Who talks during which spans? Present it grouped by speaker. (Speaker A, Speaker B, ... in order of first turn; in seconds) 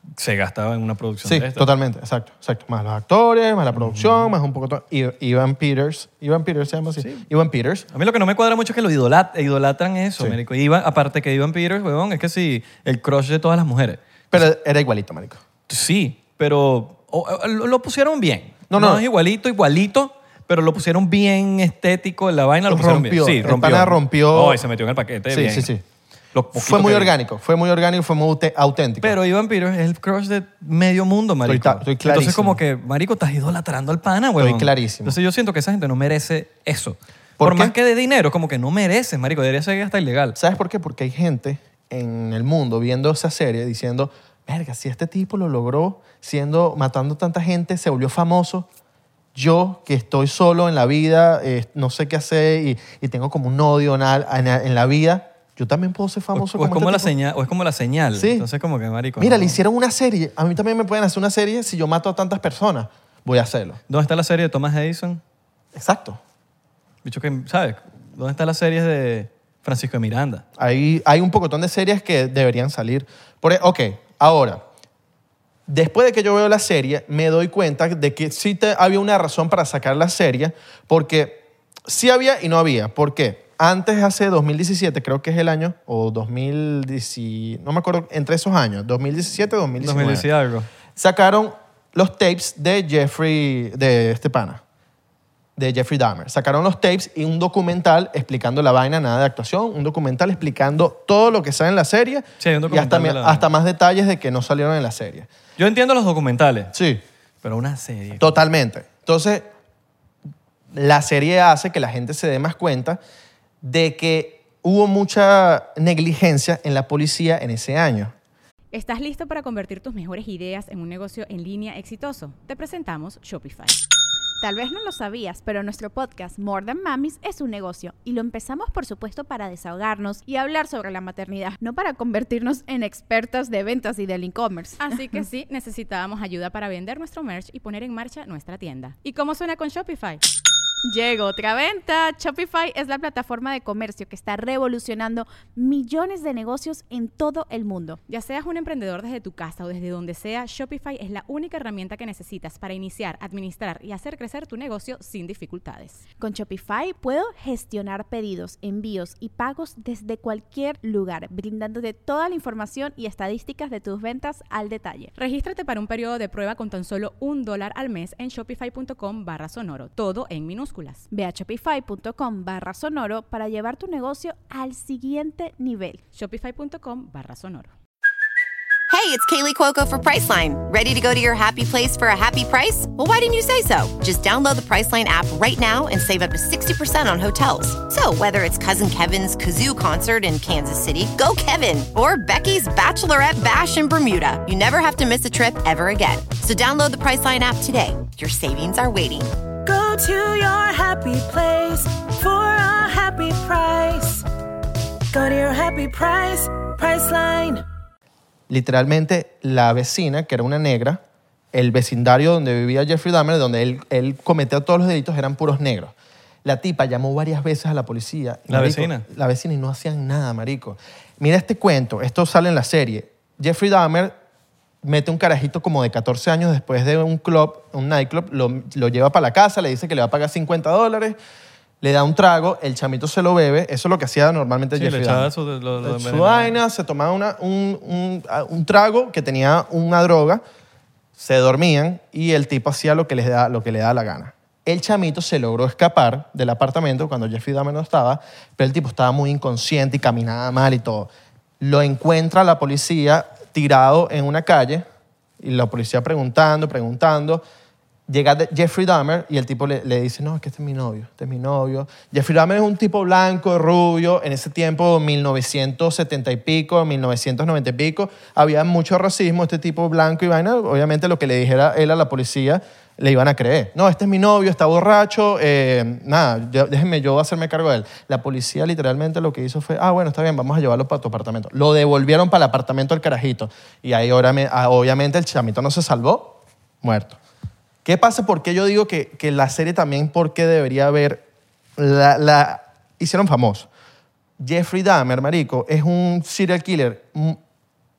Speaker A: 0.2-1.7, 3.7-4.3, 7.0-7.3, 7.9-14.5, 15.7-25.7, 26.3-27.1, 29.0-40.4, 56.3-59.6, 63.9-65.2, 67.0-70.5, 89.8-90.7, 102.4-103.5, 105.6-106.7, 107.4-108.4, 218.5-219.0, 234.8-236.6
Speaker B: 1.2-7.9, 14.3-15.4, 18.7-19.0, 22.7-24.6, 25.3-25.8, 26.5-29.2, 31.4-32.6, 34.4-35.2, 37.4-37.8, 40.4-48.7, 49.4-57.1, 58.1-58.5, 59.2-63.8, 65.7-66.2, 70.6-74.6, 75.7-90.3, 91.0-94.6, 95.6-105.3, 106.7-107.0, 108.2-109.5, 110.7-113.0, 113.6-118.1, 208.5-211.0, 211.5-224.2, 224.8-231.2, 231.8-235.3, 235.8-240.4, 241.2-254.9, 255.4-257.4, 258.1-287.2, 287.8-291.2, 291.8-293.7, 294.4-297.4
Speaker C: 118.7-123.8, 134.8-140.2, 148.1-156.0, 165.2-171.1, 176.1-177.7
Speaker D: 124.4-134.9, 140.8-148.0, 156.2-165.1, 171.1-176.0
Speaker E: 178.9-199.3
Speaker F: 199.6-204.3, 205.1-207.6